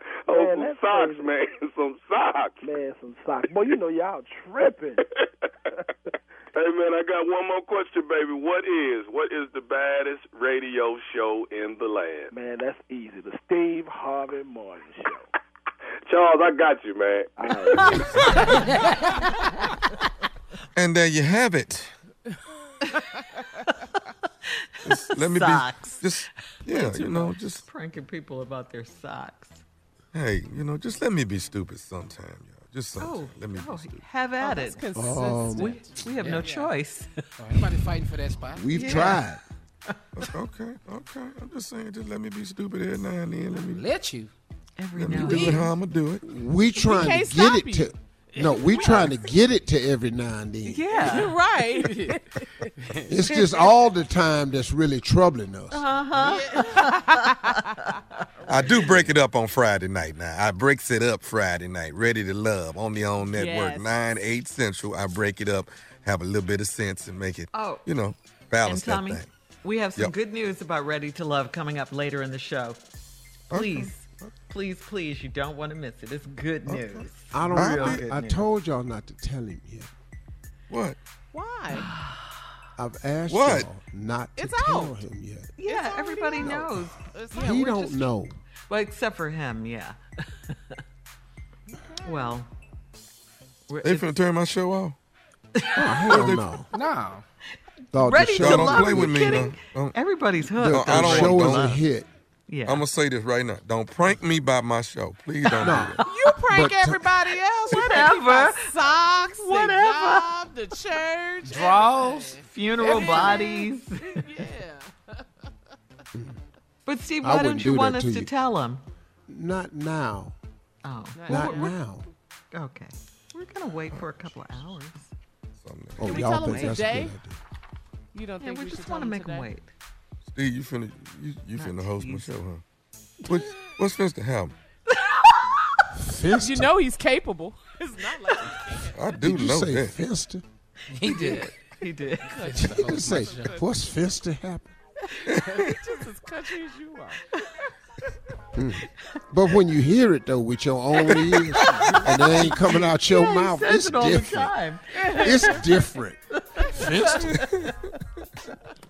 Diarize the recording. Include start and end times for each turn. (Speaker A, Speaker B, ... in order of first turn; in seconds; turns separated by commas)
Speaker A: 0.2-2.7, Speaker B: 0.3-1.3, Speaker B: 2.6-5.1, Speaker A: 6.5-12.3, Speaker B: 12.3-15.3, Speaker A: 16.1-18.0, Speaker B: 17.4-18.5, Speaker C: 18.0-18.7, Speaker D: 20.8-21.9, Speaker C: 23.6-24.0, Speaker C: 24.8-29.6, Speaker D: 24.8-27.6, Speaker D: 30.1-34.0, Speaker C: 33.0-34.9, Speaker E: 34.4-36.5, Speaker F: 34.9-35.8, Speaker C: 35.5-37.1, Speaker G: 36.1-36.7, Speaker G: 37.4-39.2, Speaker F: 38.5-39.4, Speaker C: 38.7-39.2, Speaker D: 40.2-43.9, Speaker G: 43.5-44.3, Speaker C: 44.8-45.7, Speaker D: 45.0-46.2, Speaker E: 45.3-45.5, Speaker F: 46.2-51.4, Speaker E: 46.8-49.2, Speaker C: 50.6-51.4, Speaker E: 50.9-52.7, Speaker F: 53.0-55.9, Speaker C: 55.7-58.5, Speaker E: 56.2-57.9, Speaker D: 58.5-69.3, Speaker E: 63.4-63.9, Speaker C: 67.5-67.9, Speaker C: 68.7-72.8, Speaker D: 73.5-73.9, Speaker C: 73.5-78.5, Speaker D: 76.8-78.0, Speaker F: 77.3-79.9, Speaker D: 80.7-81.0, Speaker E: 81.3-81.9, Speaker C: 81.7-82.1, Speaker F: 82.8-85.5, Speaker D: 83.3-83.7, Speaker E: 84.4-85.0, Speaker C: 85.6-87.0, Speaker E: 85.6-88.1, Speaker F: 86.3-88.4, Speaker C: 88.7-90.8, Speaker E: 91.7-92.3, Speaker C: 92.0-92.5, Speaker C: 93.7-94.1, Speaker D: 93.8-95.0, Speaker C: 95.6-96.2, Speaker F: 95.8-96.7, Speaker D: 96.1-96.5, Speaker G: 96.7-97.2, Speaker C: 97.9-101.8, Speaker F: 97.9-99.4, Speaker D: 98.4-100.0, Speaker F: 100.4-102.1, Speaker D: 100.7-101.8, Speaker C: 102.5-102.8, Speaker D: 102.7-106.0, Speaker C: 105.5-106.4, Speaker F: 105.6-107.2, Speaker E: 106.0-115.5, Speaker C: 107.7-110.4, Speaker C: 112.4-114.3, Speaker C: 116.8-118.8, Speaker F: 117.2-118.3, Speaker F: 119.3-120.4, Speaker C: 120.8-121.8, Speaker E: 121.1-121.7, Speaker F: 121.3-122.1, Speaker C: 122.5-125.1, Speaker D: 123.8-124.7, Speaker D: 125.6-126.3, Speaker F: 126.0-127.4, Speaker E: 126.0-127.2, Speaker C: 126.1-126.9, Speaker E: 128.1-129.5, Speaker C: 128.4-129.7, Speaker D: 130.3-132.6, Speaker C: 131.6-132.3, Speaker D: 133.2-134.6, Speaker C: 134.9-135.9, Speaker F: 135.9-136.8, Speaker E: 136.4-139.0, Speaker D: 138.9-139.9, Speaker F: 139.2-140.4, Speaker G: 140.9-141.6, Speaker C: 141.0-142.7, Speaker E: 142.2-143.8, Speaker G: 142.4-143.6, Speaker F: 142.5-144.8, Speaker D: 145.3-145.6, Speaker E: 145.3-147.2, Speaker F: 148.6-154.6, Speaker C: 151.0-155.8, Speaker E: 154.9-155.9, Speaker F: 155.1-157.5, Speaker C: 156.6-158.2